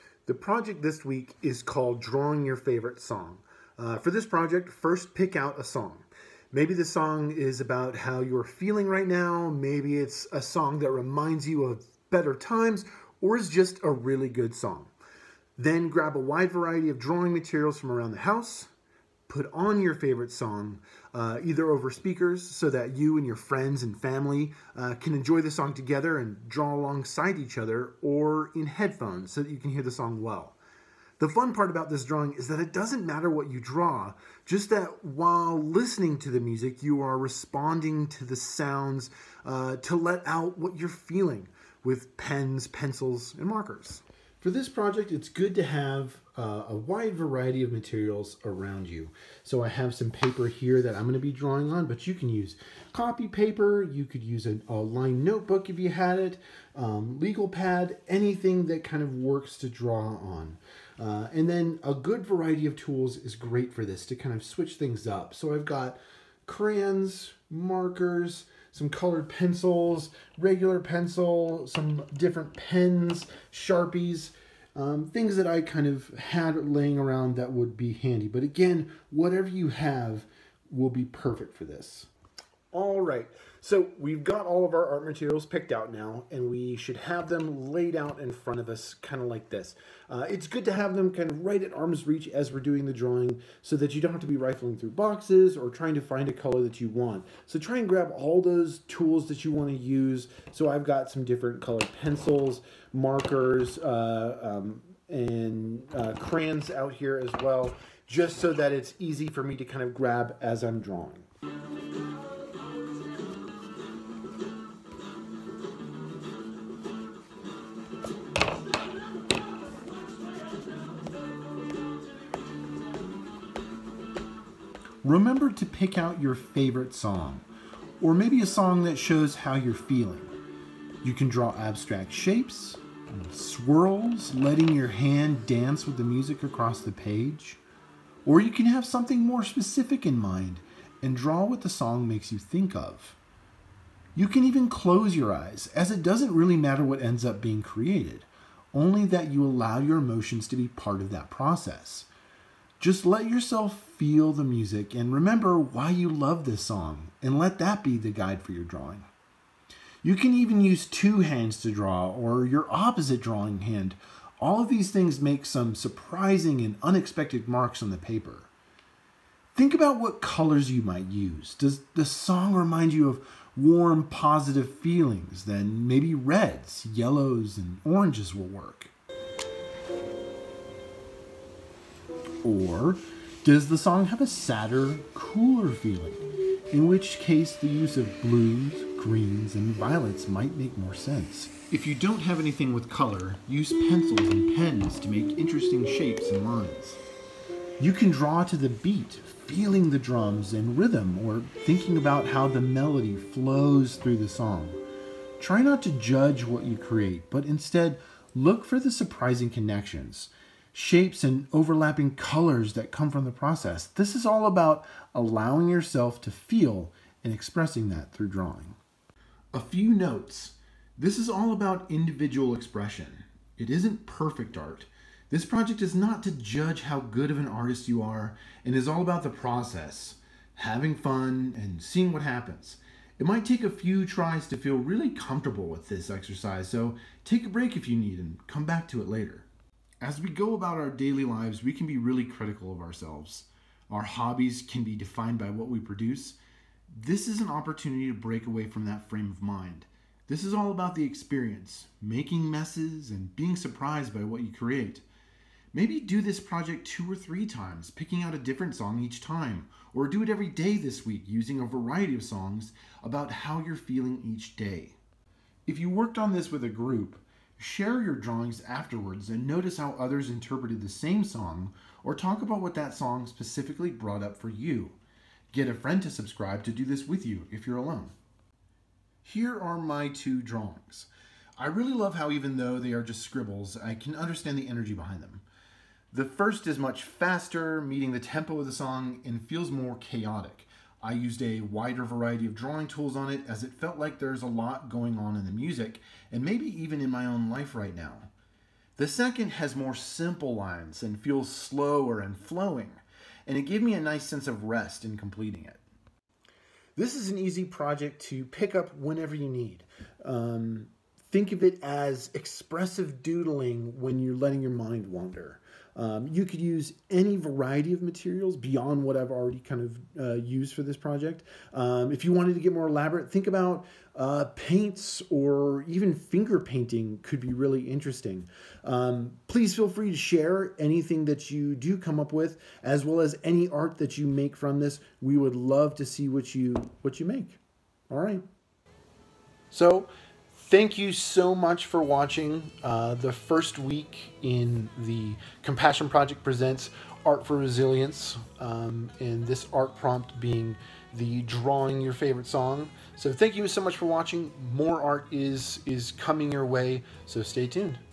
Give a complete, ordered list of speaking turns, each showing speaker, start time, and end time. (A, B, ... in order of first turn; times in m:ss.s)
0:00.3-0:14.9 A
0:15.6-0:18.7 A
0:19.3-0:30.6 A
0:31.2-1:22.1 A
1:22.7-1:51.3 A
2:05.0-2:07.4 A
2:08.0-2:10.3 A
2:11.0-2:17.6 A
2:18.2-2:23.2 A
2:24.2-2:32.1 A
2:32.8-2:39.1 A
2:40.0-2:48.5 A
2:49.6-2:58.9 A
3:02.4-3:17.0 A
3:17.8-3:24.8 A
3:25.4-3:38.8 A
3:39.5-3:59.5 A
4:00.0-4:06.4 A
4:06.9-4:15.1 A
4:15.7-4:25.0 A
4:25.7-4:35.0 A
4:35.5-4:38.1 A
4:39.2-4:45.4 A
4:46.1-4:58.3 A
4:59.0-5:05.8 A
5:07.0-5:38.4 A
5:39.7-5:58.0 A